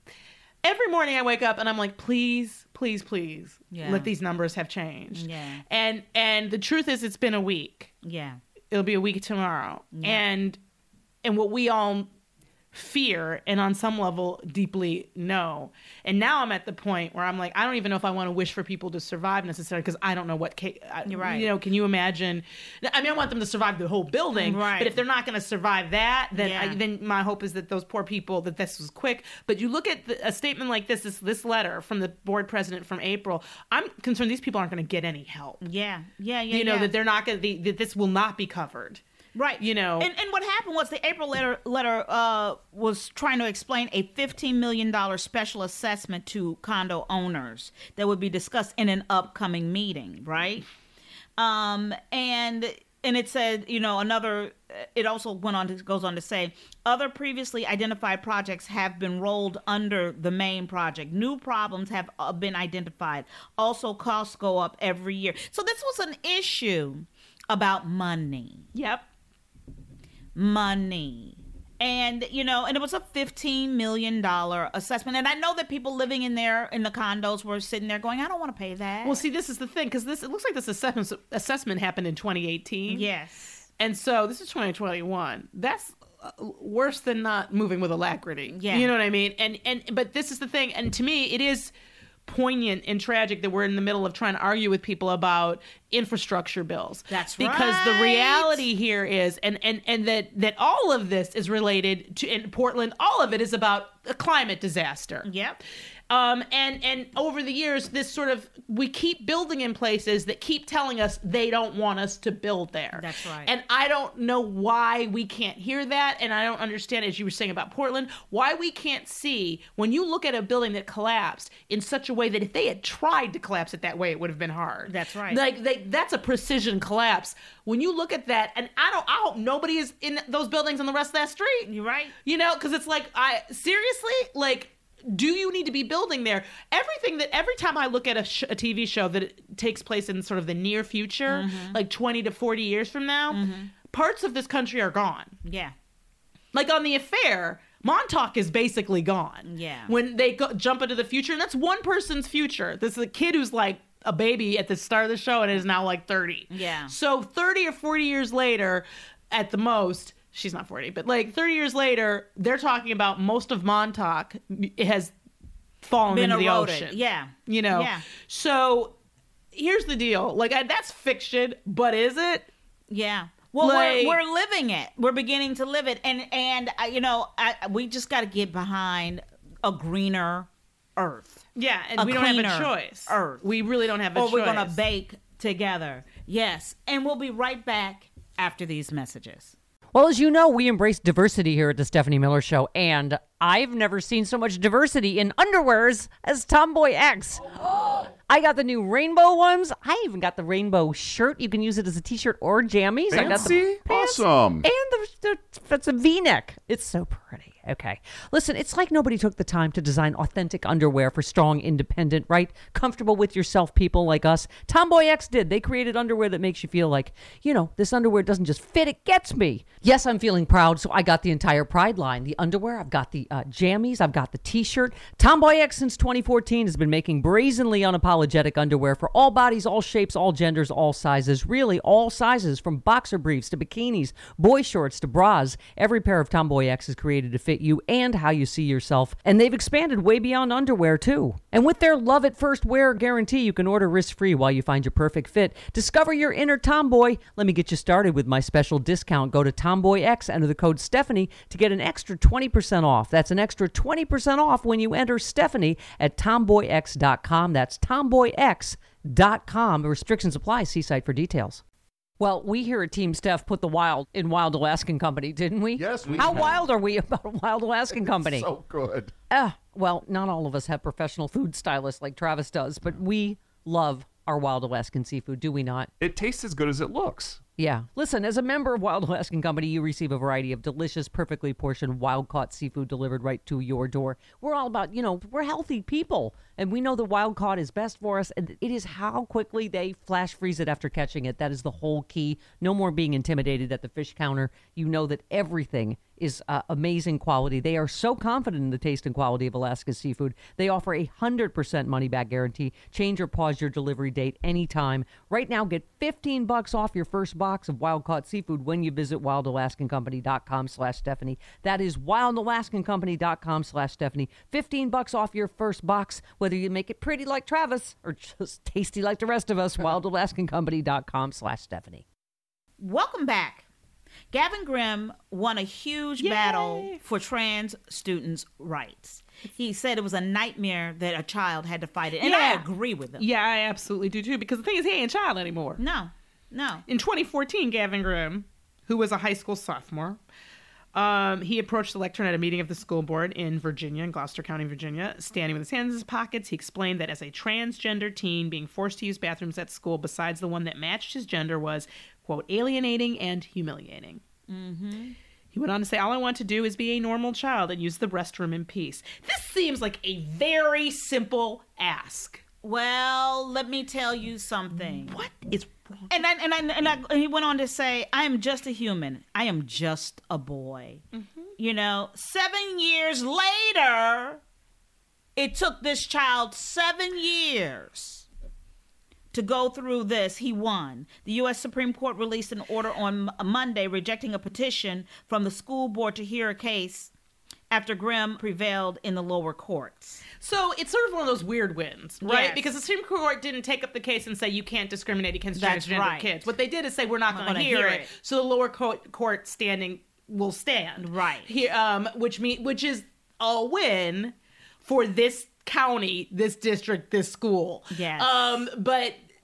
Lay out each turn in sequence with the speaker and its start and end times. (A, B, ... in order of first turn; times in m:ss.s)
0:00.6-0:07.9 A
0:03.7-0:04.1 B
0:05.1-0:05.6 B
0:08.0-0:08.4 B
0:08.7-0:10.6 A
0:10.0-0:10.2 B
0:11.2-0:12.1 A
0:12.7-0:35.6 A
0:21.1-0:21.5 B
0:24.4-0:25.0 B
0:26.4-0:26.8 B
0:35.6-0:36.9 B
0:36.5-0:39.0 A
0:39.4-0:50.6 B
0:39.6-0:40.1 A
0:51.4-1:08.7 B
1:08.7-1:09.0 A
1:10.4-1:19.2 B
1:19.0-1:23.1 A
1:22.9-1:23.6 B
1:23.8-1:31.7 A
1:28.5-1:28.9 B
1:32.3-1:45.3 A
1:37.1-1:38.6 B
1:45.2-1:45.6 B
1:46.1-2:11.7 A
1:53.0-1:53.5 B
2:04.9-2:05.4 B
2:11.7-2:12.1 B
2:12.2-2:25.4 A
2:21.3-2:21.8 B
2:23.3-2:23.7 B
2:25.4-2:25.7 B
2:26.5-2:45.1 A
2:29.4-2:29.9 B
2:36.5-2:36.9 B
2:45.8-2:49.0 A
2:46.1-2:48.0 B
2:49.5-2:52.5 A
2:52.9-3:01.4 B
2:53.6-2:54.2 A
3:01.6-3:04.8 A
3:02.0-3:03.4 B
3:04.1-3:09.6 B
3:09.9-4:21.6 C
3:23.1-3:24.6 D
4:22.2-4:28.5 C
4:25.8-4:26.7 D
4:28.1-4:29.1 D
4:29.3-4:35.9 C
4:36.0-4:37.5 D
4:37.6-5:22.0 C
5:22.8-5:23.7 B
5:24.3-5:33.2 B
5:26.2-5:27.0 A
5:32.2-5:32.6 A
5:33.2-5:35.8 A
5:35.8-5:36.8 B
5:36.9-5:40.2 A
5:40.9-5:54.2 A
5:54.5-5:55.2 B
5:55.5-6:02.4 A
6:02.6-6:05.2 B
6:04.8-6:06.1 A
6:06.1-6:11.0 B
6:11.1-6:11.5 A
6:11.6-6:14.4 B
6:15.4-6:18.3 B
6:19.3-6:27.1 B
6:27.7-6:30.2 B
6:30.4-6:49.2 A
6:32.2-6:32.7 B
6:35.6-6:36.5 B
6:37.3-6:38.1 B
6:41.0-6:41.5 B
6:47.9-6:48.6 B